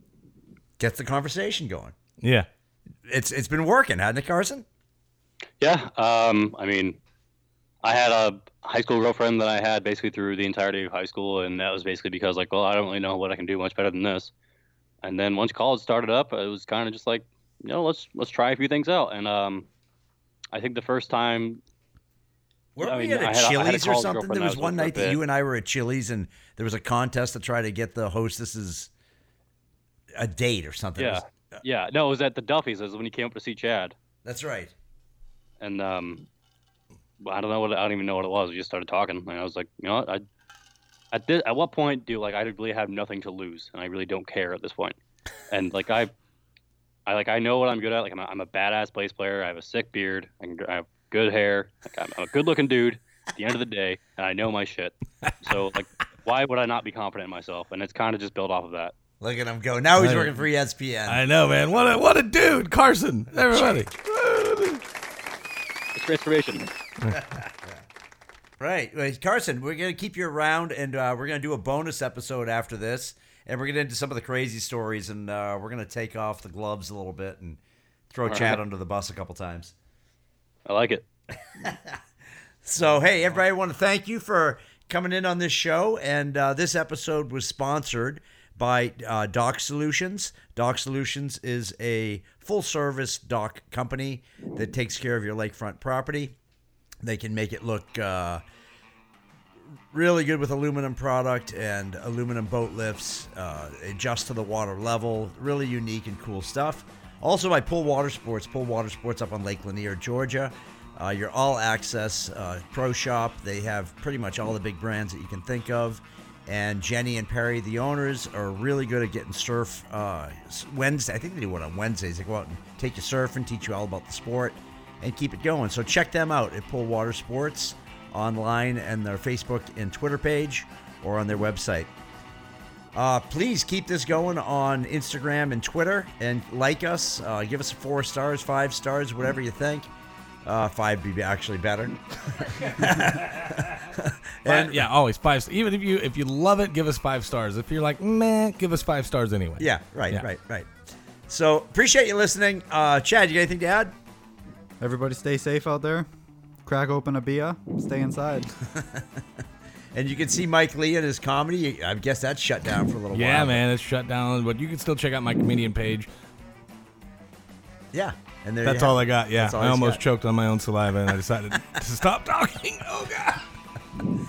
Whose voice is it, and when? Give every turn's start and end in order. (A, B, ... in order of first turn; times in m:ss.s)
0:00.8-0:02.0 A
0:02.2-0:02.5 B
0:03.1-0:04.6 A
0:05.6-0:07.0 C
0:07.8-0:14.3 C
0:15.0-0:19.7 C
0:20.5-0:21.6 C
0:22.8-0:28.9 A
0:22.8-0:25.2 C
0:30.2-0:31.2 A
0:31.0-0:34.0 C
0:34.2-0:34.7 A
0:35.6-0:36.3 C
0:37.2-0:40.2 C
0:41.1-0:45.0 C
0:45.5-0:46.1 C
0:47.1-0:58.9 C
0:59.2-1:01.2 A
1:00.0-1:00.4 B
1:01.1-1:04.8 B
1:03.5-1:03.9 A
1:06.0-1:06.7 C
1:07.1-1:07.8 A
1:08.6-1:17.6 A
1:18.1-1:19.7 A
1:18.3-1:18.6 C
1:20.6-1:21.1 C
1:21.6-1:22.0 A
1:22.6-1:36.4 A
1:37.0-1:38.4 A
1:39.9-2:11.9 A
2:12.9-2:19.9 A
2:20.4-2:24.9 A
2:22.7-2:23.9 B
2:24.4-2:30.2 B
2:29.6-2:30.7 A
2:31.3-2:33.9 A
2:34.8-2:36.1 D
2:36.6-2:38.5 D
2:38.6-2:39.2 A
2:39.9-2:43.6 A
2:43.1-2:46.1 B
2:47.9-2:50.0 A
2:48.6-2:53.5 B